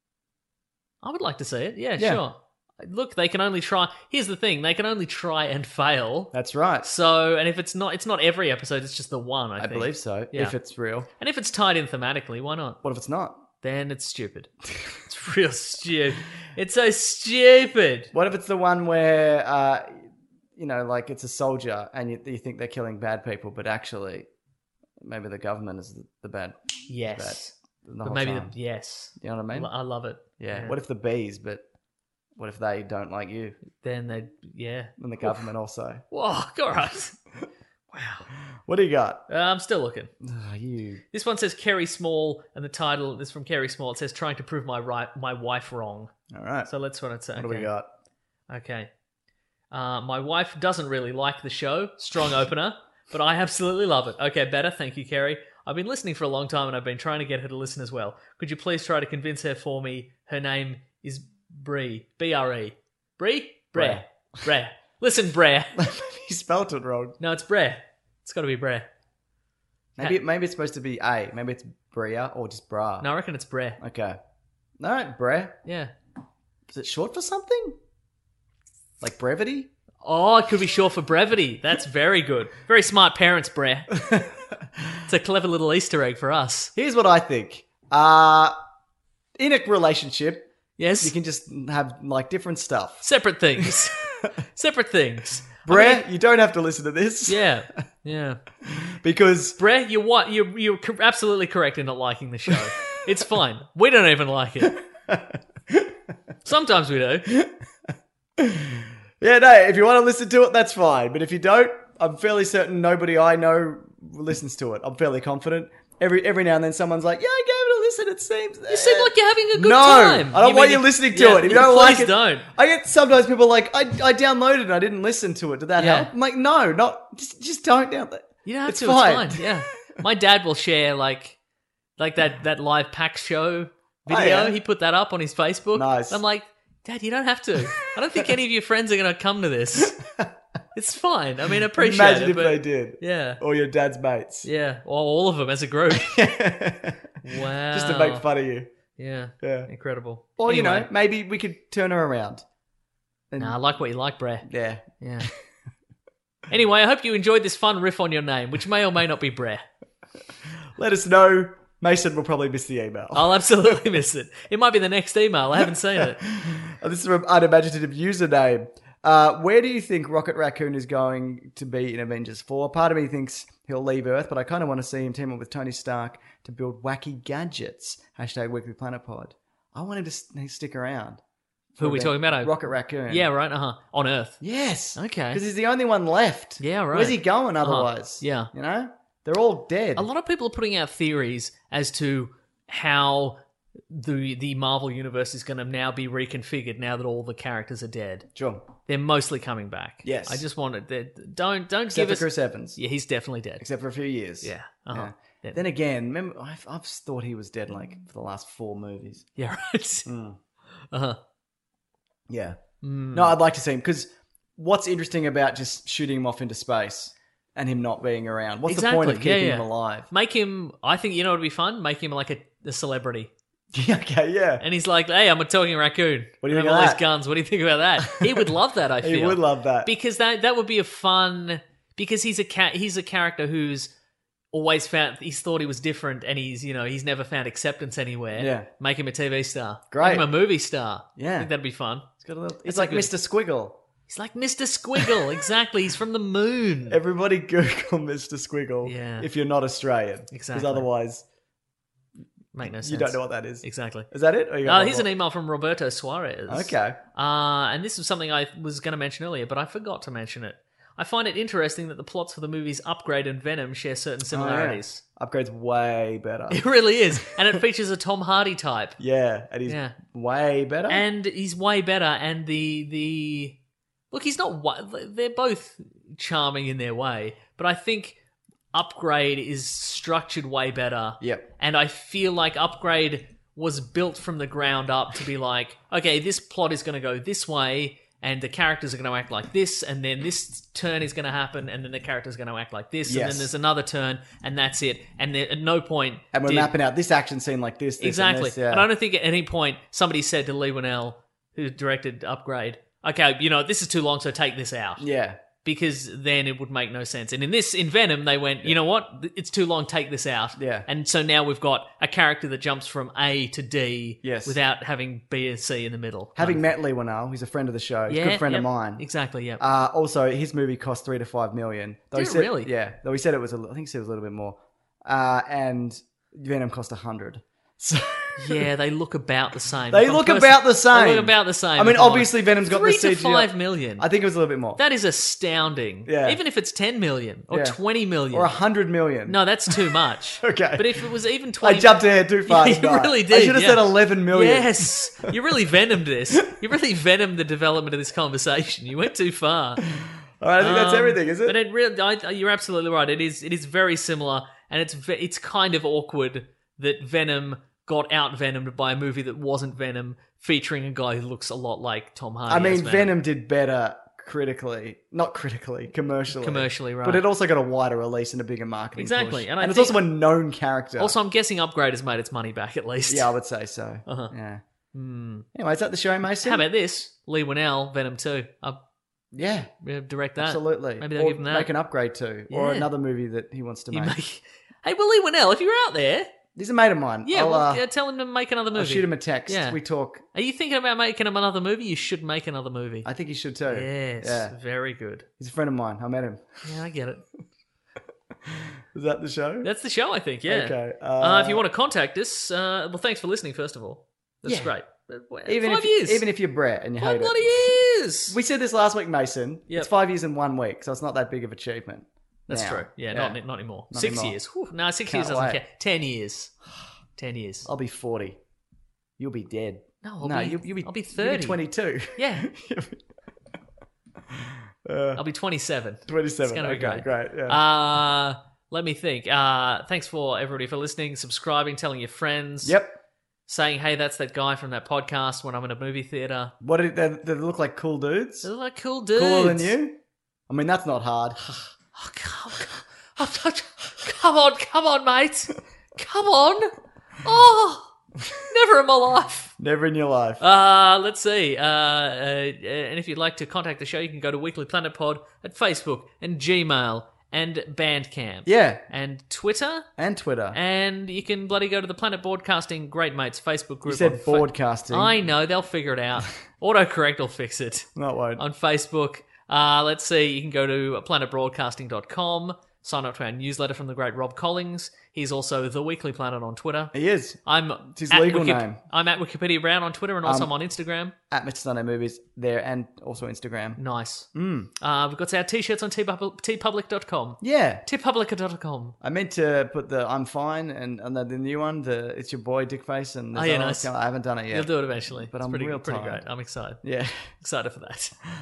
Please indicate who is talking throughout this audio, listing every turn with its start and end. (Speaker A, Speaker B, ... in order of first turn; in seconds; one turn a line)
Speaker A: 1.0-10.6
Speaker B: 6.3-6.9
Speaker B: 9.6-11.1
Speaker A: 11.2-12.8
Speaker B: 12.8-13.4
Speaker A: 13.6-18.1
Speaker B: 18.1-24.3
Speaker B: 25.0-28.6
Speaker A: 26.9-30.8
Speaker B: 29.2-29.7
Speaker B: 30.4-31.6
Speaker B: 32.4-33.6
Speaker A: 33.8-35.4
Speaker B: 35.0-36.0
Speaker A: 36.1-37.2
Speaker A: 37.9-38.3
Speaker B: 38.7-39.2
Speaker A: 39.3-40.1
Speaker B: 40.2-41.0
Speaker A: 41.1-46.1
Speaker B: 46.3-46.7
Speaker A: 46.7-47.7
Speaker B: 47.4-47.9
Speaker A: 48.5-48.9
Speaker A: 49.7-65.8
Speaker B: 63.8-64.0
Speaker B: 65.8-67.2
Speaker A: 67.2-68.9
Speaker B: 70.0-73.1
Speaker A: 73.0-73.8
Speaker B: 73.8-74.2
Speaker B: 74.8-75.6
Speaker A: 75.7-75.9
Speaker B: 76.7-77.8
Speaker B: 79.0-79.7
Speaker A: 80.0-84.0
Speaker B: 84.0-84.9
Speaker A: 85.1-86.7
Speaker B: 86.8-88.5
Speaker B: 89.4-90.5
Speaker A: 90.8-91.2
Speaker B: 91.0-93.0
Speaker A: 93.0-96.0
Speaker B: 93.6-94.3
Speaker B: 95.7-97.8
Speaker A: 97.3-98.4
Speaker B: 98.7-99.6
Speaker A: 99.6-104.8
Speaker B: 104.6-106.0
Speaker A: 106.5-107.3
Speaker B: 108.4-129.5
Speaker A: 118.7-122.5
Speaker A: 125.8-126.1
Speaker A: 128.5-131.4
Speaker A: 132.0-140.0
Speaker B: 134.1-134.6
Speaker B: 135.7-136.2
Speaker B: 139.8-140.3
Speaker A: 140.8-143.4
Speaker B: 141.8-144.5
Speaker A: 144.4-146.1
Speaker B: 145.9-147.1
Speaker A: 147.2-148.3
Speaker B: 147.7-148.7
Speaker A: 149.0-150.9
Speaker B: 149.4-149.7
Speaker B: 150.4-152.4
Speaker B: 153.3-153.6
Speaker A: 153.4-154.5
Speaker B: 154.4-155.3
Speaker A: 155.0-155.3
Speaker A: 156.5-159.7
Speaker B: 160.8-163.8
Speaker A: 163.1-166.2
Speaker B: 165.6-181.2
Speaker B: 181.8-183.3
Speaker A: 181.8-184.4
Speaker B: 184.4-190.1
Speaker A: 185.0-185.4
Speaker A: 186.6-188.5
Speaker A: 190.0-198.3
Speaker B: 198.3-198.7
Speaker A: 198.9-203.7
Speaker B: 200.0-200.4
Speaker B: 201.9-202.8
Speaker B: 203.6-209.3
Speaker A: 204.4-205.6
Speaker A: 209.4-210.1
Speaker B: 210.1-210.4
Speaker A: 210.9-211.2
Speaker B: 212.3-212.6
Speaker A: 212.8-213.4
Speaker B: 213.1-220.1
Speaker A: 218.7-223.3
Speaker B: 223.7-224.6
Speaker A: 224.6-233.9
Speaker B: 226.4-227.0
Speaker B: 228.0-229.9
Speaker A: 234.5-242.1
Speaker B: 238.3-238.7
Speaker B: 239.9-240.3
Speaker B: 241.2-241.5
Speaker B: 242.2-243.8
Speaker A: 242.7-243.1
Speaker A: 244.1-247.0
Speaker B: 245.0-245.3
Speaker B: 246.9-251.2
Speaker A: 248.8-249.3
Speaker A: 250.3-250.9
Speaker A: 252.5-254.1
Speaker B: 252.6-255.1
Speaker A: 254.6-265.0
Speaker B: 256.5-257.0
Speaker B: 264.3-266.6
Speaker A: 266.5-269.0
Speaker B: 267.2-267.5
Speaker B: 269.0-271.1
Speaker A: 269.7-270.0
Speaker A: 270.9-273.6
Speaker A: 274.1-278.2
Speaker A: 278.7-296.7
Speaker B: 281.2-281.5
Speaker B: 293.1-293.5
Speaker B: 296.3-298.9
Speaker A: 298.0-305.1
Speaker B: 305.0-305.4
Speaker A: 305.6-316.6
Speaker B: 310.6-310.9
Speaker B: 314.2-314.6
Speaker B: 316.4-319.1
Speaker A: 318.1-319.6
Speaker B: 319.6-328.7
Speaker A: 322.1-322.7
Speaker A: 328.4-334.1
Speaker B: 329.9-334.8
Speaker A: 334.8-338.5
Speaker B: 336.1-336.4
Speaker B: 337.5-337.8
Speaker B: 338.3-341.1
Speaker A: 339.3-349.8
Speaker B: 341.6-345.4
Speaker B: 350.4-351.6
Speaker A: 350.6-363.1
Speaker B: 362.5-371.2
Speaker A: 366.3-367.2
Speaker A: 369.0-370.0
Speaker A: 371.0-373.3
Speaker B: 373.1-374.6
Speaker A: 374.1-374.3
Speaker A: 374.9-375.5
Speaker B: 375.6-376.7
Speaker A: 376.4-378.8
Speaker B: 379.3-379.7
Speaker A: 379.8-381.7
Speaker B: 380.4-384.2
Speaker A: 382.5-382.9
Speaker A: 383.9-386.3
Speaker B: 386.6-387.9
Speaker A: 387.3-389.8
Speaker B: 388.7-390.2
Speaker A: 390.4-393.1
Speaker B: 393.1-394.6
Speaker A: 393.7-395.3
Speaker B: 395.4-396.6
Speaker A: 396.6-397.2
Speaker B: 398.4-399.7
Speaker A: 399.6-406.3
Speaker B: 400.5-401.6
Speaker B: 404.4-404.7
Speaker B: 405.5-413.4
Speaker A: 407.0-408.4
Speaker A: 412.5-416.5
Speaker B: 413.9-414.4
Speaker B: 415.1-415.6
Speaker A: 417.2-417.7
Speaker B: 417.6-418.4
Speaker B: 419.2-423.0
Speaker A: 420.0-421.6
Speaker A: 422.1-422.5
Speaker B: 424.4-425.2
Speaker A: 425.2-432.8
Speaker B: 426.1-427.6
Speaker B: 432.6-433.0
Speaker A: 433.5-436.5
Speaker B: 436.6-438.5
Speaker A: 438.4-439.8
Speaker B: 439.1-441.4
Speaker A: 441.9-449.5
Speaker B: 449.6-450.4
Speaker A: 450.4-459.9
Speaker B: 458.4-458.8
Speaker B: 460.0-460.6
Speaker A: 460.5-476.9
Speaker B: 463.9-465.2
Speaker B: 468.0-468.4
Speaker B: 476.9-477.4
Speaker A: 477.5-481.1
Speaker B: 477.9-478.8
Speaker B: 480.2-480.5
Speaker B: 481.3-483.8
Speaker A: 483.8-484.3
Speaker B: 484.4-484.7
Speaker A: 484.8-489.0
Speaker B: 487.4-487.9
Speaker B: 489.0-496.2
Speaker A: 493.4-493.9
Speaker A: 494.5-496.8
Speaker B: 496.8-497.3
Speaker A: 497.4-498.2